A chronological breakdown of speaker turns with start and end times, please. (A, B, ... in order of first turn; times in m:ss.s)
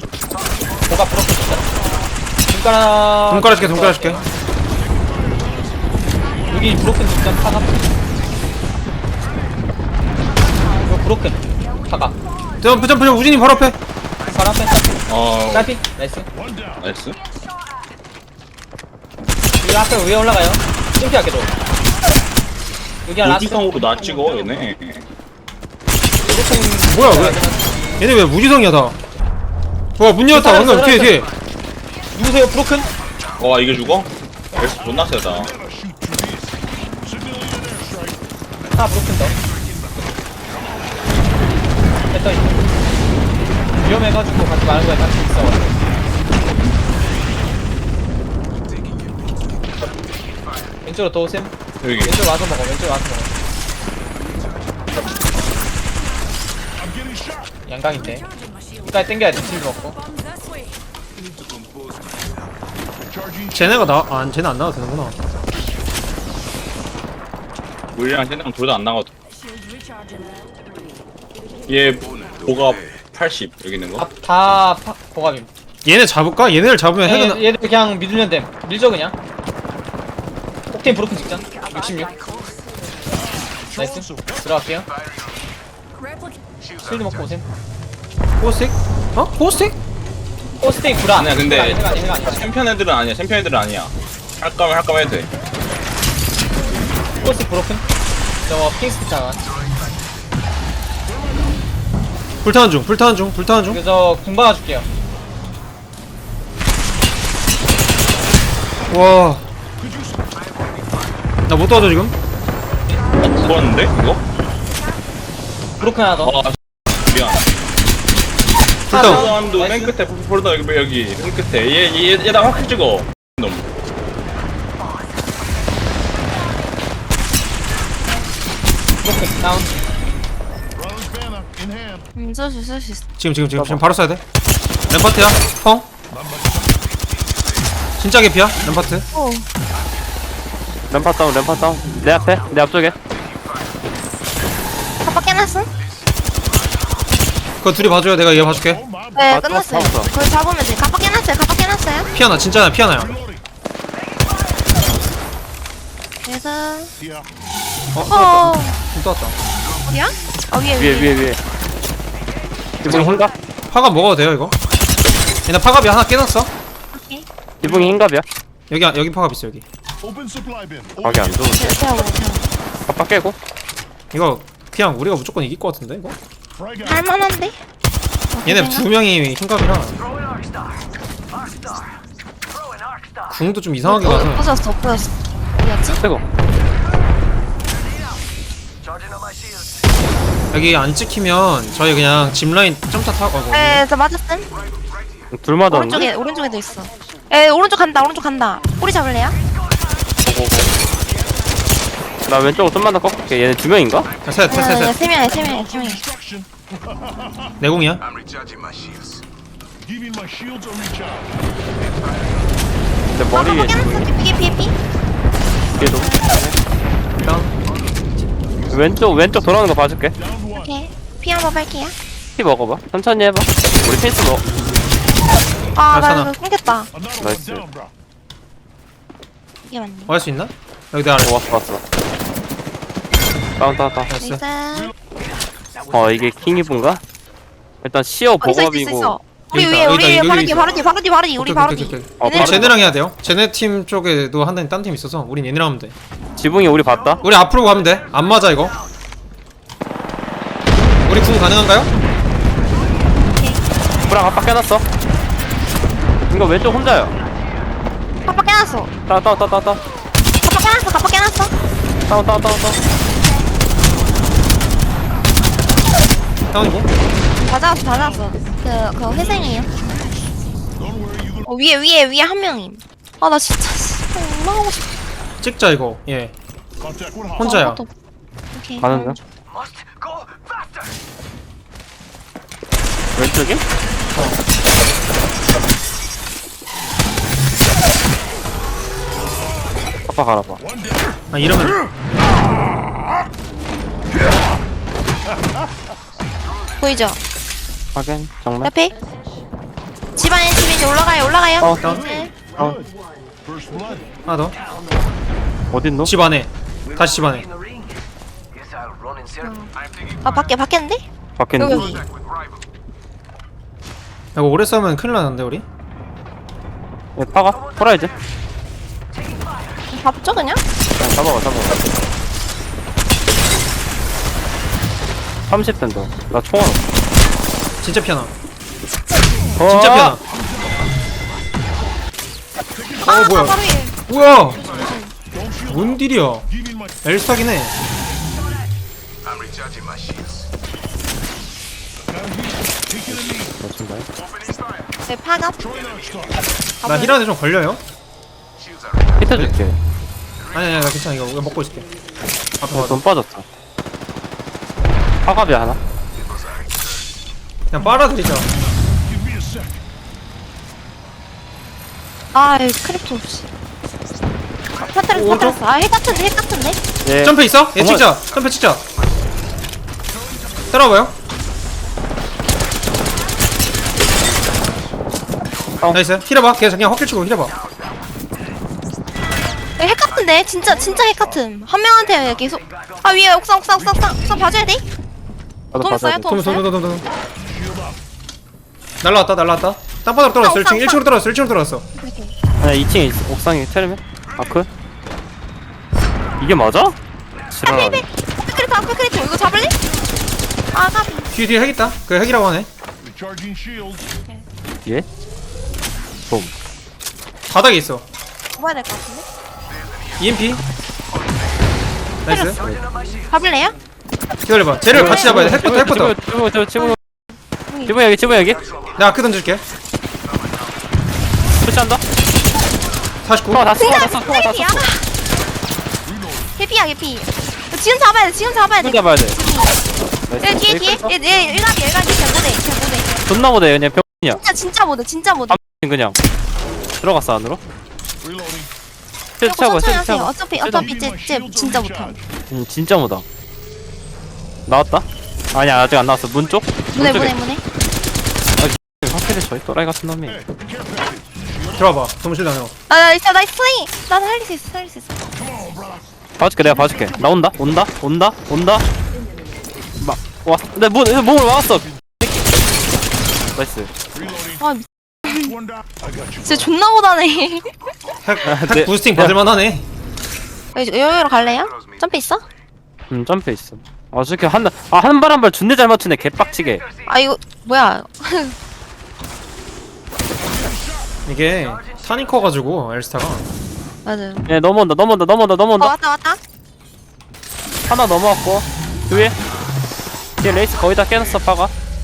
0:00.8-0:01.7 A
0:02.5-0:04.2 A
0:03.3-0:04.2 B
0:06.4-0:07.9 A
0:10.8-0:12.2 A
0:12.6-0:13.8 B
0:14.2-0:16.3 A
0:15.1-0:15.7 C
0:16.8-0:17.2 C
0:19.6-0:21.5 A
0:23.0-0:24.3 A
0:23.2-0:25.0 C
0:26.2-0:28.0 A
0:26.8-0:27.4 B
0:28.0-0:29.0 B
0:30.0-0:31.3 B
0:30.3-0:31.3 A
0:32.1-0:32.9 A
0:33.4-0:35.6 C
0:38.7-0:39.4 A
0:42.1-0:42.6 A
0:43.8-0:45.8 A
0:50.8-0:53.4 A
0:51.8-0:52.1 C
0:57.6-0:58.3 A
0:58.9-1:00.0 A
1:03.5-1:05.2 B
1:07.9-1:09.1 C
1:11.7-1:14.1 C
1:14.0-1:15.5 A
1:15.8-1:17.4 B
1:17.0-1:19.1 A
1:20.7-1:22.1 A
1:23.7-1:24.9 A
1:26.7-1:27.5 A
1:28.4-1:29.8 B
1:30.5-1:32.5 A
1:31.1-1:35.3 C
1:37.2-1:37.8 A
1:38.5-1:39.4 A
1:42.4-1:43.8 B
1:43.7-1:44.9 A
1:48.9-1:49.4 B
1:51.5-1:52.1 B
1:52.9-1:53.6 A
1:53.4-1:54.2 C
1:55.8-1:56.4 A
1:56.2-1:57.5 C
1:58.9-1:59.3 B
1:58.9-2:00.0 A
1:58.9-2:03.6 C
2:09.0-2:10.0 A
2:12.2-2:13.0 D
2:13.2-2:14.2 B
2:13.6-2:13.8 E
2:14.9-2:15.9 B
2:18.0-2:19.1 B
2:19.1-2:19.4 D
2:20.9-2:23.0 E
2:25.0-2:25.7 D
2:27.6-2:28.8 B
2:29.1-2:32.1 D
2:29.3-2:30.1 E
2:32.1-2:33.2 B
2:36.2-2:36.9 D
2:37.9-2:39.4 B
2:38.1-2:38.8 D
2:39.9-2:41.2 D
2:40.7-2:41.4 E
2:42.8-2:43.3 E
2:42.8-2:43.2 B
2:43.7-2:44.6 B
2:45.4-2:46.5 B
2:46.9-2:47.2 D
2:47.6-2:48.2 E
2:48.7-2:49.6 B
2:51.0-2:51.8 E
2:51.5-2:52.5 D
2:52.9-2:53.4 E
2:54.1-2:56.2 B
2:56.8-2:57.6 D
2:58.3-2:58.8 D
2:58.4-3:00.0 B
3:03.3-3:04.5 B
3:03.8-3:06.0 D
3:10.5-3:13.8 B
3:13.5-3:14.5 D
3:15.3-3:16.1 E
3:15.7-3:19.4 D
3:20.2-3:20.7 E
3:22.2-3:24.1 E
3:24.2-3:25.1 B
3:24.5-3:26.0 D
3:27.6-3:28.0 B
3:33.1-3:34.1 E
3:33.3-3:34.8 D
3:35.7-3:36.6 E
3:35.8-3:36.2 D
3:37.2-3:37.5 B
3:38.7-3:40.1 E
3:40.5-3:41.9 D
3:42.4-3:44.5 E
3:45.8-3:46.9 D
3:45.9-3:46.3 B
3:47.2-3:47.7 E
3:49.7-3:50.1 D
3:50.1-3:51.3 B
3:51.2-3:51.8 E
3:53.6-3:54.1 E
3:54.1-3:54.4 B
3:54.2-3:54.9 D
3:55.9-3:57.0 E
3:57.8-3:59.2 E
3:58.4-4:02.7 D
3:59.5-4:00.8 B
4:01.4-4:05.9 B
4:02.2-4:02.8 E
4:06.4-4:07.2 E
4:07.2-4:08.7 B
4:11.0-4:11.9 B
4:13.4-4:13.6 D
4:14.0-4:14.8 E
4:16.3-4:17.1 E
4:18.2-4:18.9 D
4:19.0-4:19.8 E
4:20.4-4:21.5 D
4:22.1-4:22.8 E
4:26.5-4:26.9 B
4:27.4-4:29.7 D
4:31.4-4:34.8 D
4:35.4-4:36.3 B
4:37.4-4:37.8 B
4:37.4-4:37.9 D
4:38.5-4:39.2 D
4:38.8-4:39.2 E
4:43.2-4:43.6 E
4:50.1-4:50.6 E
4:51.3-4:51.8 B
4:56.8-4:57.2 D
4:57.9-4:58.7 E
4:58.6-4:58.9 D
5:00.2-5:02.4 D
5:01.8-5:02.1 B
5:02.6-5:02.8 E
5:04.2-5:04.6 B
5:05.7-5:06.1 E
5:06.0-5:07.5 B
5:09.4-5:09.7 D
5:10.2-5:11.0 D
5:11.4-5:12.0 E
5:11.6-5:12.0 D
5:14.3-5:15.6 B
5:17.2-5:18.1 E
5:19.9-5:20.6 D
5:21.0-5:21.8 E
5:25.5-5:26.8 E
5:27.8-5:28.3 B
5:29.6-5:30.2 E
5:29.6-5:30.2 B
5:33.0-5:34.0 D
5:33.0-5:34.6 B
5:34.6-5:35.1 D
5:35.6-5:36.5 B
5:37.0-5:37.7 B
5:43.1-5:44.0 E
5:45.1-5:45.6 D
5:46.8-5:47.2 D
5:46.8-5:47.8 B
5:49.2-5:49.8 E
5:49.3-5:49.6 B
5:50.5-5:51.9 B
5:52.6-5:53.0 B
5:52.7-5:53.4 E
5:55.2-5:55.8 E
5:57.7-5:58.5 B
6:02.3-6:03.4 D
6:04.8-6:06.8 D
6:05.1-6:05.6 B
6:07.0-6:08.0 E
6:07.2-6:08.8 B
6:10.7-6:11.1 B
6:15.9-6:17.5 B
6:19.8-6:24.8 D
6:25.7-6:26.2 E
6:25.8-6:26.6 D
6:26.2-6:27.0 B
6:29.0-6:31.8 B
6:30.4-6:31.0 D
6:32.0-6:32.3 D
6:32.6-6:34.7 E
6:36.4-6:37.0 E
6:37.5-6:38.0 E
6:37.6-6:39.7 D
6:40.7-6:41.3 D
6:41.3-6:42.7 B
6:46.2-6:46.5 E
6:47.5-6:48.0 B
6:48.6-6:49.2 D
6:50.2-6:50.6 B
6:52.2-6:52.6 B
6:52.3-6:52.6 D
6:53.3-6:53.8 D
6:54.4-6:56.1 B
6:54.9-6:57.0 E
6:55.0-6:55.4 D
6:57.7-6:58.0 D
6:57.8-6:58.6 E
6:59.0-6:59.6 B
7:01.6-7:02.0 E
7:03.2-7:03.7 B
7:03.5-7:04.9 E
7:03.8-7:05.1 D
7:06.6-7:09.8 D
7:08.8-7:09.4 E
7:10.3-7:11.1 E
7:10.4-7:13.2 D
7:13.2-7:14.4 E
7:14.3-7:15.6 D
7:15.5-7:16.2 E
7:17.0-7:17.6 E
7:19.4-7:21.0 E
7:19.4-7:22.2 D
7:22.5-7:23.2 E
7:24.6-7:27.4 E
7:27.0-7:27.6 D
7:28.6-7:30.5 E
7:31.7-7:32.7 B
7:32.9-7:35.1 D
7:36.4-7:38.8 E
7:40.0-7:41.9 E
7:43.5-7:43.9 E
7:44.6-7:45.6 D
7:46.4-7:47.7 D
7:48.2-7:49.8 B
7:48.4-7:49.4 E
7:50.7-7:52.4 D
7:53.1-7:56.9 E
7:57.0-7:58.5 D
8:01.2-8:03.5 B
8:04.0-8:04.4 D
8:04.5-8:05.9 E
8:05.8-8:06.4 D
8:07.8-8:09.4 E
8:10.4-8:11.7 E